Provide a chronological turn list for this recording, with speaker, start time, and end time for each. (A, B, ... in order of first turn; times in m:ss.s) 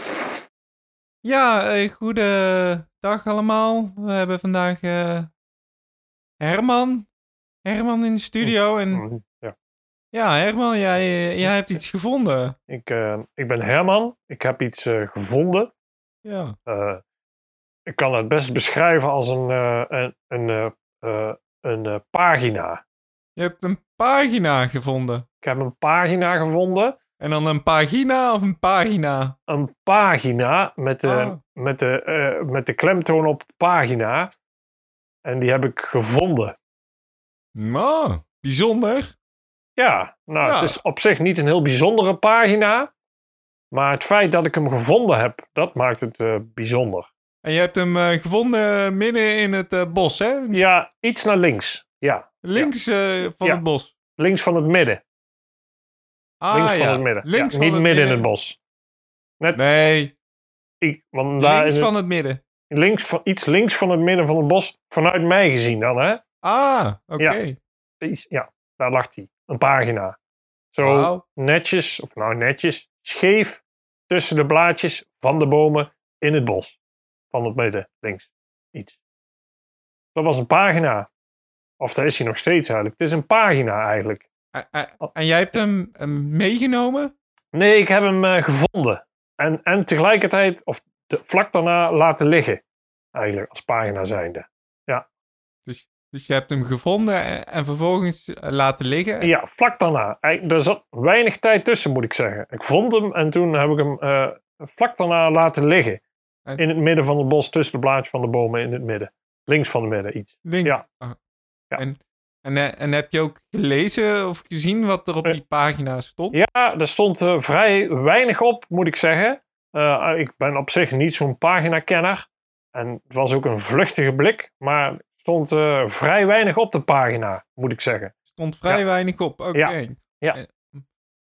0:01.2-0:05.3 A
0:06.4-0:07.1 A
0:07.6-0:09.0 A
0:08.4-0:09.5 B
0:10.1-0:12.6 A
0:12.7-0:15.7 B
0:16.2-0:16.6 A
0:16.7-0:17.0 B
0:17.9-0:22.8 B
0:23.4-0:25.2 A
0:25.4-0:27.0 B
0:27.2-0:29.4 A
0:29.5-0:34.3 B
0:31.0-0:31.4 A
0:35.2-0:36.6 B
0:37.6-0:39.1 A
0:39.8-0:42.9 B
0:40.4-0:40.8 A
0:43.7-0:47.1 B
0:47.4-0:50.6 A
0:50.5-0:52.7 B
0:52.4-0:53.9 A
0:54.2-0:55.0 B
0:56.4-0:58.3 A
0:56.5-0:58.6 B
0:59.4-0:59.7 B
0:59.6-1:00.2 A
1:00.8-1:01.9 B
1:01.4-1:02.4 A
1:02.7-1:06.2 B
1:06.4-1:07.6 A
1:08.0-1:10.2 B
1:10.7-1:16.8 B
1:10.8-1:11.2 A
1:17.3-1:19.0 B
1:20.2-1:21.1 B
1:21.8-1:24.3 B
1:24.5-1:27.1 A
1:27.5-1:32.6 B
1:33.1-1:35.1 B
1:35.7-1:39.3 A
1:39.2-1:46.0 B
1:46.6-1:50.8 B
1:50.4-1:51.2 A
1:51.8-1:56.4 A
1:56.3-2:08.1 B
2:08.3-2:10.8 A
2:09.5-2:10.4 B